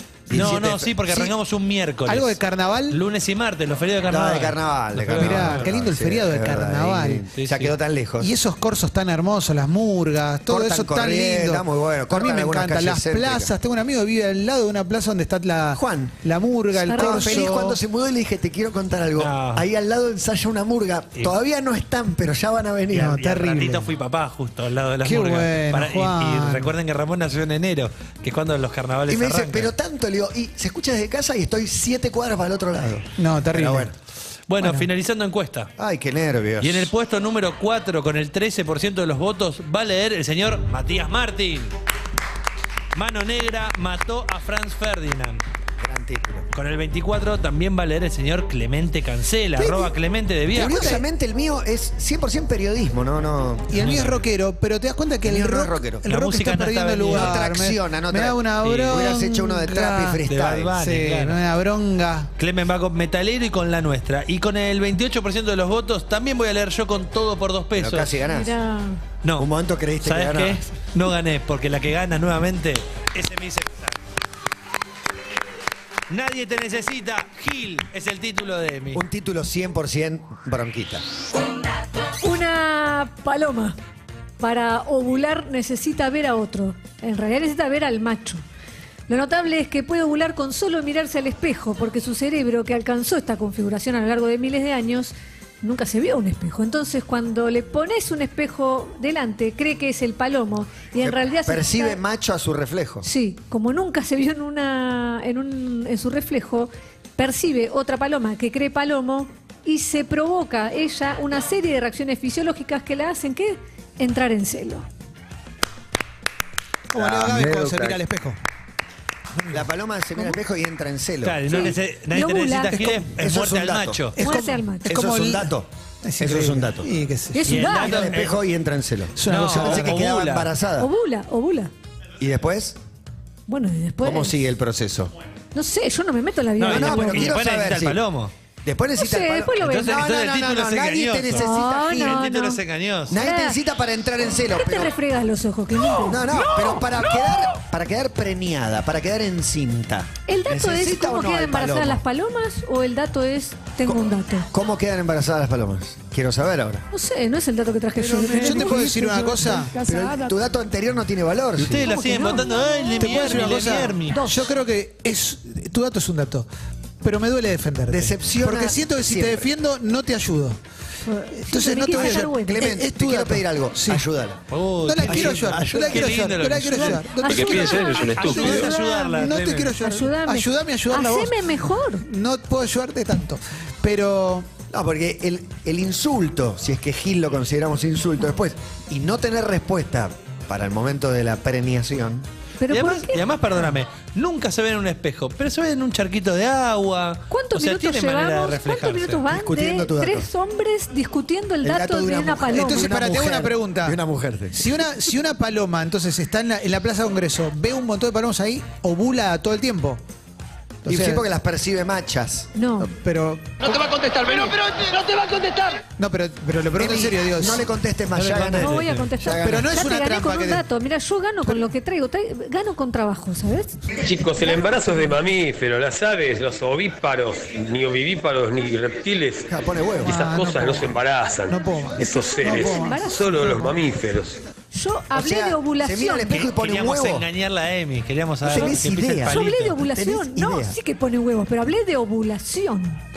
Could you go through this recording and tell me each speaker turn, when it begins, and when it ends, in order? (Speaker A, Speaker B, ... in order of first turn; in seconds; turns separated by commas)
Speaker A: 0.3-1.3, Speaker B: 0.3-2.4, Speaker C: 2.0-3.0, Speaker B: 2.9-5.7, Speaker A: 4.1-8.3, Speaker C: 5.1-7.3, Speaker B: 7.3-7.7, Speaker C: 8.2-17.8, Speaker A: 10.5-13.5, Speaker A: 15.7-16.2, Speaker D: 16.8-17.5, Speaker A: 16.9-23.2, Speaker B: 19.1-19.6, Speaker C: 22.9-23.9, Speaker B: 22.9-29.7, Speaker C: 25.0-26.7, Speaker A: 29.1-33.9, Speaker C: 33.2-33.9, Speaker B: 34.5-35.7, Speaker C: 34.6-34.9, Speaker A: 35.8-36.9, Speaker B: 36.6-41.7, Speaker B: 42.9-45.4, Speaker A: 45.8-46.5, Speaker B: 46.5-50.8, Speaker A: 49.5-49.9, Speaker A: 50.5-53.8, Speaker C: 50.5-51.0, Speaker C: 53.7-60.2, Speaker B: 53.8-54.2, Speaker A: 55.2-56.0, Speaker B: 56.0-57.3, Speaker A: 57.1-60.7, Speaker B: 58.6-59.1, Speaker B: 60.2-61.4, Speaker C: 60.8-62.3, Speaker B: 62.4-68.1, Speaker A: 67.7-68.5, Speaker D: 68.2-69.0, Speaker B: 69.2-69.5, Speaker A: 69.4-70.7, Speaker B: 70.0-73.9, Speaker B: 76.1-79.0, Speaker A: 78.9-81.0, Speaker D: 82.2-83.8, Speaker D: 84.4-88.4, Speaker D: 89.1-102.0, Speaker A: 101.0-103.1, Speaker D: 103.0-114.8, Speaker C: 116.9-118.4, Speaker A: 116.9-117.6, Speaker C: 119.4-119.6, Speaker A: 119.5-121.7, Speaker B: 121.2-124.2, Speaker D: 121.5-123.0, Speaker A: 123.2-124.1, Speaker C: 124.2-127.5, Speaker D: 124.2-124.8, Speaker A: 124.8-125.7, Speaker A: 126.2-126.9, Speaker D: 127.3-128.2, Speaker B: 127.4-128.4, Speaker A: 127.7-130.9, Speaker C: 129.2-129.8, Speaker B: 129.3-130.5, Speaker D: 130.8-131.7, Speaker A: 132.2-132.8, Speaker D: 133.5-134.4, Speaker A: 134.0-135.1, Speaker D: 135.5-137.3, Speaker B: 136.6-138.3, Speaker A: 136.6-138.0, Speaker A: 138.6-142.3, Speaker D: 139.0-140.0, Speaker B: 139.6-143.2, Speaker D: 141.3-142.6, Speaker A: 143.1-144.9, Speaker D: 143.1-143.6, Speaker D: 144.5-146.8, Speaker A: 146.0-152.0, Speaker D: 150.3-154.5, Speaker A: 153.8-156.9, Speaker D: 156.9-159.3, Speaker E: 158.0-160.3, Speaker C: 158.2-159.8, Speaker A: 159.8-161.9, Speaker B: 161.6-164.2, Speaker D: 161.8-163.5, Speaker C: 163.0-166.5, Speaker D: 164.1-164.5, Speaker C: 167.0-170.6, Speaker A: 167.9-169.5, Speaker D: 171.1-172.7, Speaker C: 171.3-174.0, Speaker A: 171.9-174.4, Speaker B: 174.5-179.7, Speaker C: 174.8-184.5, Speaker A: 175.0-176.1, Speaker D: 177.0-182.0, Speaker A: 184.7-192.3, Speaker D: 192.6-193.2, Speaker B: 192.7-199.2, Speaker D: 197.3-202.9, Speaker A: 199.3-200.3, Speaker A: 201.6-204.8, Speaker C: 202.5-204.0, Speaker C: 204.5-210.0, Speaker C: 210.8-211.2, Speaker A: 210.8-212.5, Speaker D: 212.5-212.9, Speaker C: 212.8-213.4, Speaker E: 213.6-215.8, Speaker C: 216.0-220.6, Speaker A: 216.8-219.7, Speaker D: 218.6-223.8, Speaker B: 218.7-219.1, Speaker F: 224.0-229.5, Speaker A: 229.5-230.2, Speaker C: 230.0-230.9, Speaker F: 230.1-234.4, Speaker C: 231.5-233.0, Speaker D: 232.5-233.7, Speaker D: 234.7-236.3, Speaker A: 235.1-237.3, Speaker B: 236.3-239.8, Speaker A: 238.4-240.8, Speaker D: 239.3-243.0